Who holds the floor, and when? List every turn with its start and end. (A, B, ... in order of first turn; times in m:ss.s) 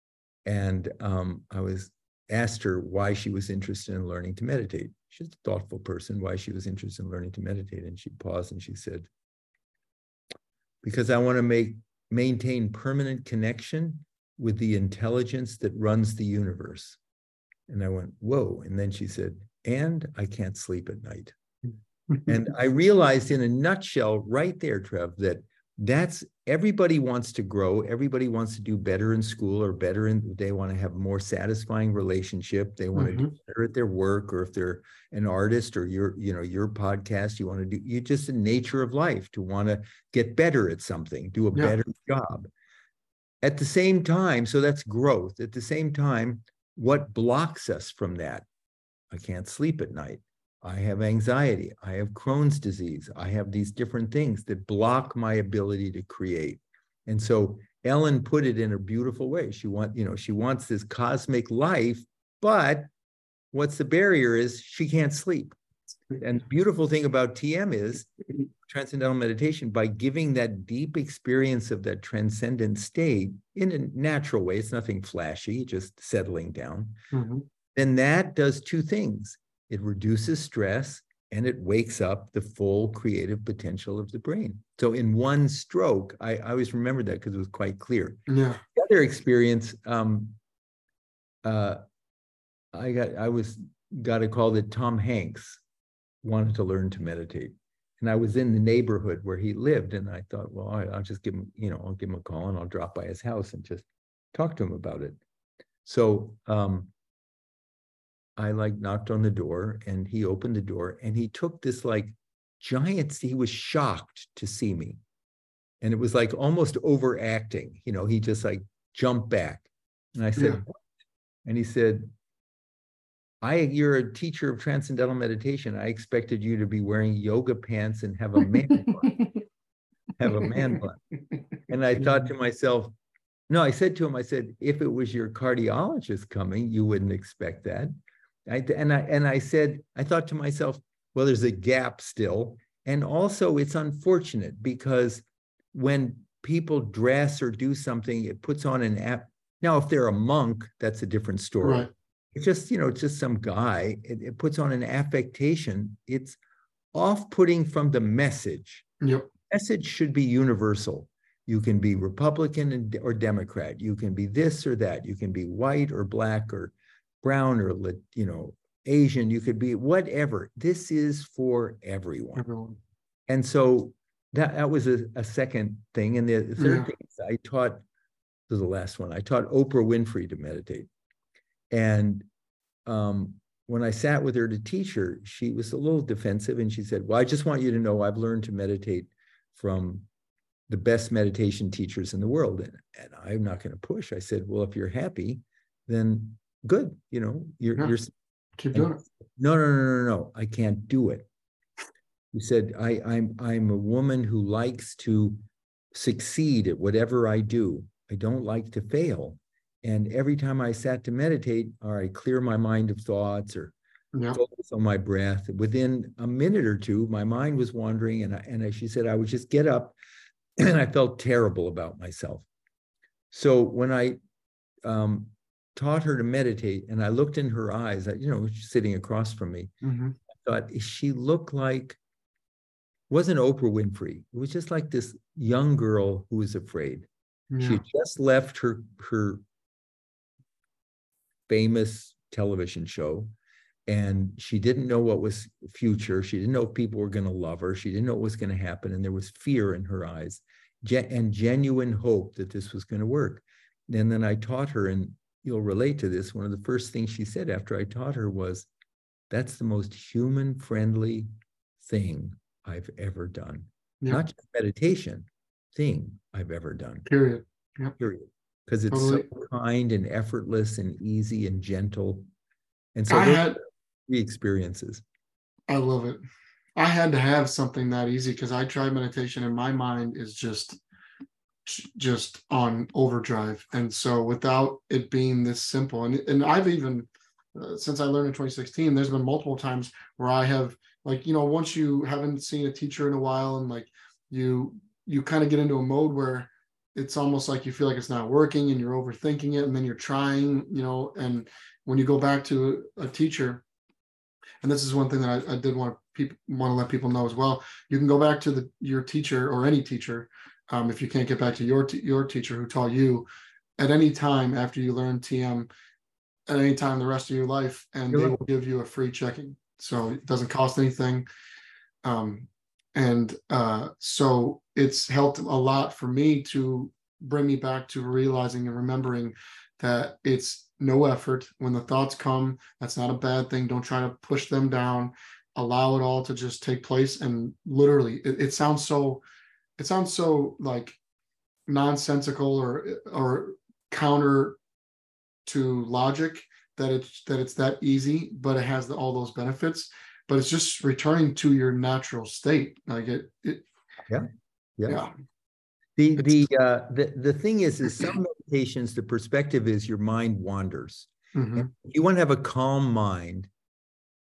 0:00.4-0:09.1 A
0:10.8-0:17.0 A
0:17.7-0:21.3 A
0:22.3-0:42.5 A
0:32.9-0:33.3 B
0:43.4-0:48.4 A
0:49.1-1:02.9 A
1:03.5-1:05.5 A
1:06.1-1:08.1 A
1:08.6-1:17.0 A
1:17.1-1:17.4 B
1:17.7-1:28.2 A
1:28.3-1:28.6 B
1:28.7-1:30.4 A
1:31.4-1:31.8 A
1:32.7-1:35.6 A
1:36.2-1:45.2 A
1:45.8-1:46.9 A
1:48.4-1:55.0 A
1:55.8-2:00.8 A
2:00.4-2:00.6 B
2:01.4-2:02.1 A
2:03.4-2:09.2 A
2:09.0-2:09.3 B
2:10.2-2:11.0 A
2:11.7-2:12.9 A
2:13.5-2:17.9 A
2:18.5-2:36.4 A
2:31.6-2:31.9 B
2:36.9-2:38.9 A
2:39.0-2:39.3 B
2:39.5-2:52.4 A
2:52.3-2:52.8 B
2:53.3-2:57.8 A
2:56.6-2:56.9 B
2:58.5-3:00.9 A
3:01.7-3:02.2 A
3:02.8-3:10.1 A
3:10.7-3:18.1 A
3:18.6-3:19.0 B
3:18.7-3:21.3 A
3:22.3-3:25.4 A
3:25.9-3:33.7 A
3:34.1-3:34.4 B
3:34.3-3:40.0 A
3:40.6-3:42.5 A
3:43.3-3:44.2 A
3:44.8-3:49.7 A
3:49.8-3:50.2 B
3:50.4-3:52.0 A
3:53.1-3:57.1 A
3:57.5-3:57.8 B
3:57.6-3:59.4 A
4:01.5-4:03.3 A
4:03.9-4:18.7 A
4:19.3-4:21.3 A
4:21.8-4:27.0 A
4:27.0-4:28.0 B
4:28.0-4:32.2 A
4:28.9-4:29.2 B
4:33.0-4:35.0 A
4:33.1-4:33.6 B
4:35.7-4:36.2 B
4:36.8-4:40.8 B
4:41.6-5:03.6 B
5:04.6-5:15.7 B
5:16.5-5:21.3 B
5:18.1-5:18.4 A
5:22.0-5:39.2 B
5:39.8-5:41.0 B
5:41.7-5:44.6 B
5:45.4-5:53.6 B
5:54.8-5:55.0 A
5:54.9-5:55.1 B
5:56.0-6:03.5 A
6:01.3-6:01.7 B